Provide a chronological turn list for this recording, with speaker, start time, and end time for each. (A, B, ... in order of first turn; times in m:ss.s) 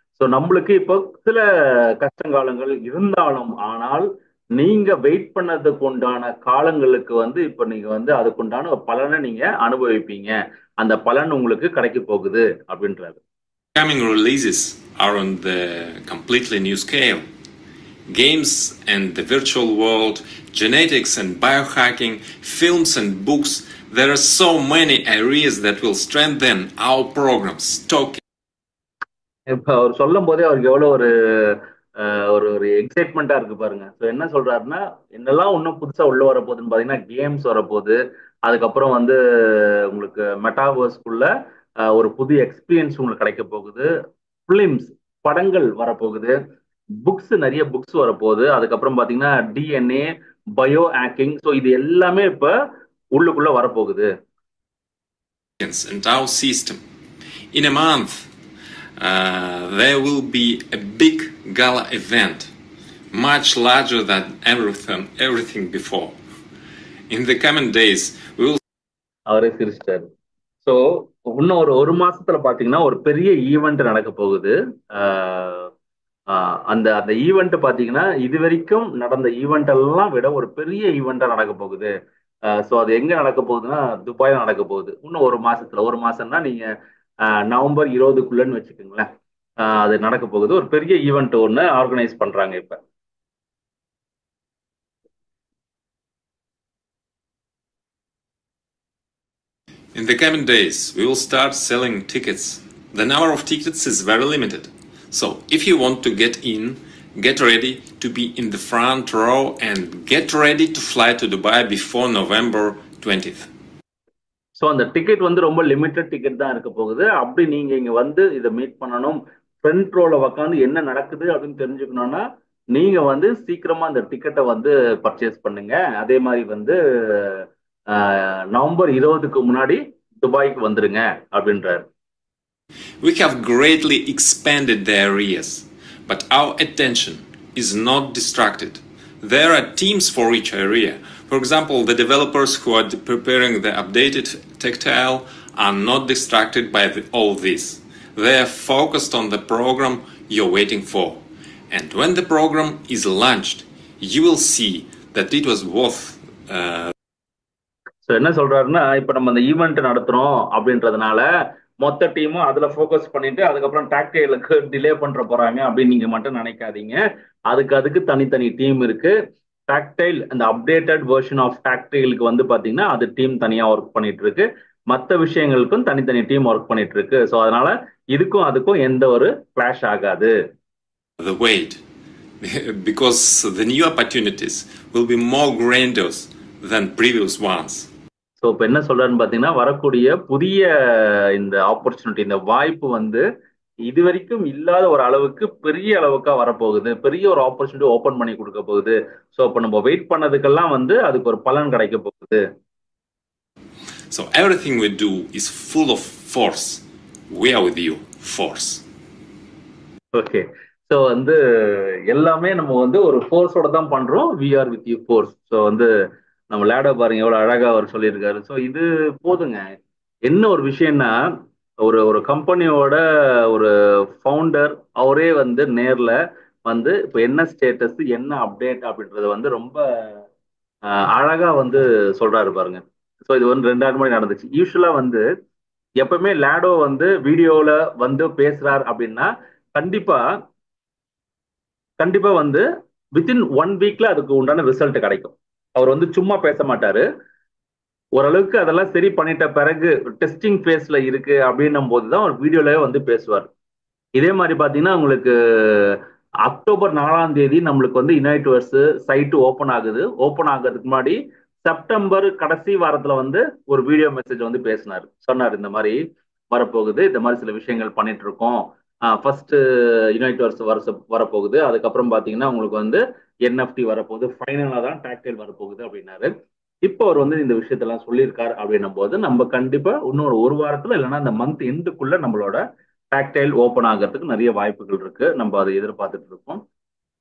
0:00.2-0:13.2 A
0:13.8-0:17.3 B
0:18.1-0:28.2 B
0:29.5-0:41.3 A
0:41.8-0:43.9 A
0:44.5-0:46.4 A
0:47.0-0:52.5 A
0:53.1-0:54.1 A
0:55.6-0:56.8 B
0:57.5-0:58.3 B
0:59.0-1:02.5 B
1:03.1-1:06.2 B
1:07.1-1:08.6 B
1:09.3-1:10.1 A
1:10.6-1:15.7 A
1:16.3-1:21.9 A
1:22.5-1:26.7 A
1:27.3-1:29.1 A
1:29.6-1:32.8 A
1:39.9-1:53.5 B
1:54.6-2:11.8 A
2:13.0-2:31.2 B
2:31.7-2:36.9 B
2:38.1-2:41.3 A
2:41.8-2:49.2 A
2:49.7-3:00.3 A
3:01.2-3:01.8 B
3:02.4-3:07.9 B
3:08.4-3:13.2 A
3:13.8-3:22.4 A
3:24.1-3:26.8 B
3:27.3-3:28.8 B
3:30.1-3:35.9 A
3:36.5-3:39.6 A
3:40.3-3:41.2 A
3:41.8-3:50.2 A
3:50.9-3:55.3 A
3:56.0-4:00.2 A
4:02.0-4:07.0 A
4:08.2-4:13.5 A
4:14.2-4:26.0 A
4:26.5-4:29.6 A
4:30.1-4:36.3 A
4:36.8-4:42.6 A
4:43.1-4:46.6 A